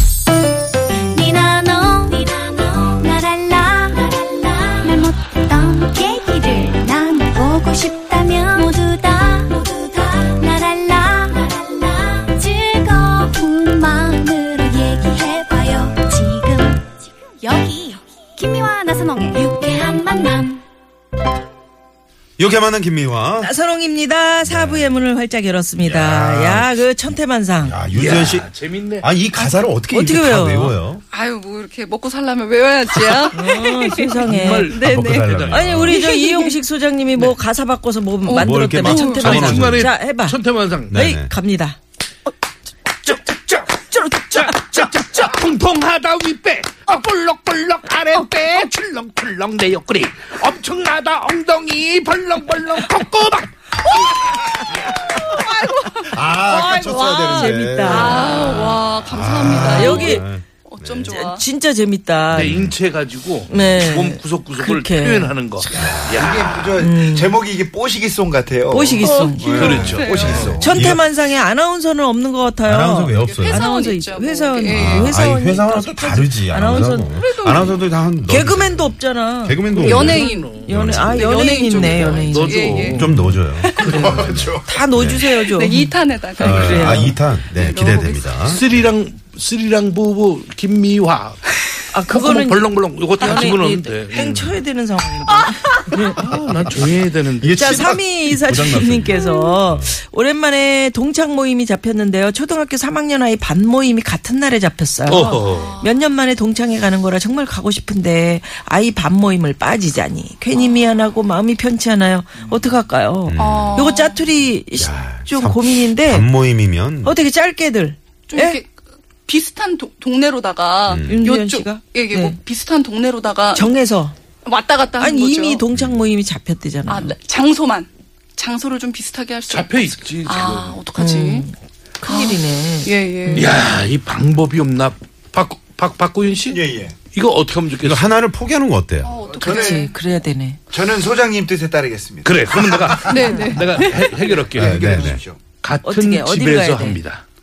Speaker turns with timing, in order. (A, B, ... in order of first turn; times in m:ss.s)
0:01.1-0:20.6 A
0:22.4-0:23.5 B
0:23.4-0:27.8 C
0:24.4-0:25.0 B
0:25.8-0:26.8 B
0:27.6-0:31.0 B
0:27.9-0:29.1 D
0:29.4-0:30.8 C
0:31.1-0:35.3 E
0:33.3-0:34.8 C
0:34.2-0:35.8 D
0:34.8-0:36.0 B
0:35.4-0:41.8 C
0:35.8-0:36.6 E
0:38.2-0:39.4 E
0:38.4-0:39.9 B
0:39.2-0:41.0 D
0:40.9-0:41.3 B
0:43.0-0:53.5 D
0:43.9-0:44.4 C
0:55.1-1:01.4 E
0:55.9-1:01.1 B
0:56.5-0:58.3 C
0:59.6-1:00.2 C
1:01.1-1:02.6 C
1:02.3-1:02.7 B
1:02.3-1:06.6 D
1:03.5-1:05.3 C
1:05.8-1:06.7 B
1:06.1-1:10.9 F
1:06.8-1:07.4 C
1:08.7-1:10.0 C
1:09.0-1:10.6 D
1:09.2-1:10.5 E
1:10.4-1:11.1 B
1:10.6-1:17.2 C
1:12.6-1:13.6 B
1:13.2-1:15.1 E
1:14.7-1:21.3 B
1:17.2-1:17.9 E
1:18.2-1:27.2 C
1:19.7-1:21.0 D
1:19.8-1:23.1 E
1:21.6-1:23.1 D
1:23.0-1:25.3 B
1:23.6-1:24.0 E
1:23.8-1:24.8 F
1:25.4-1:28.5 E
1:26.4-1:28.6 B
1:28.4-1:31.5 D
1:31.9-1:36.1 C
1:32.1-1:34.6 D
1:35.9-1:37.8 D
1:36.6-1:40.0 B
1:37.6-1:56.3 C
1:45.1-1:45.7 D
1:45.4-1:46.0 E
1:53.2-1:53.9 B
1:53.4-1:54.2 E
1:54.8-1:57.2 B
1:57.0-1:58.6 C
1:58.3-1:58.7 E
1:59.2-2:03.7 E
2:00.9-2:01.2 B
2:01.0-2:02.4 C
2:03.5-2:04.1 C
2:04.4-2:05.6 E
2:05.0-2:07.1 C
2:05.7-2:06.0 B
2:06.9-2:11.5 E
2:09.5-2:10.8 D
2:10.9-2:13.6 C
2:12.0-2:13.5 E
2:13.3-2:18.1 D
2:16.5-2:17.0 F
2:17.8-2:19.2 B
2:19.0-2:20.0 E
2:19.3-2:19.9 F
2:19.4-2:20.6 C
2:20.7-2:23.2 F
2:22.2-2:24.9 D
2:23.0-2:23.8 E
2:23.2-2:23.8 C
2:24.1-2:25.4 F
2:24.5-2:25.2 B
2:25.6-2:27.2 D
2:25.8-2:27.0 C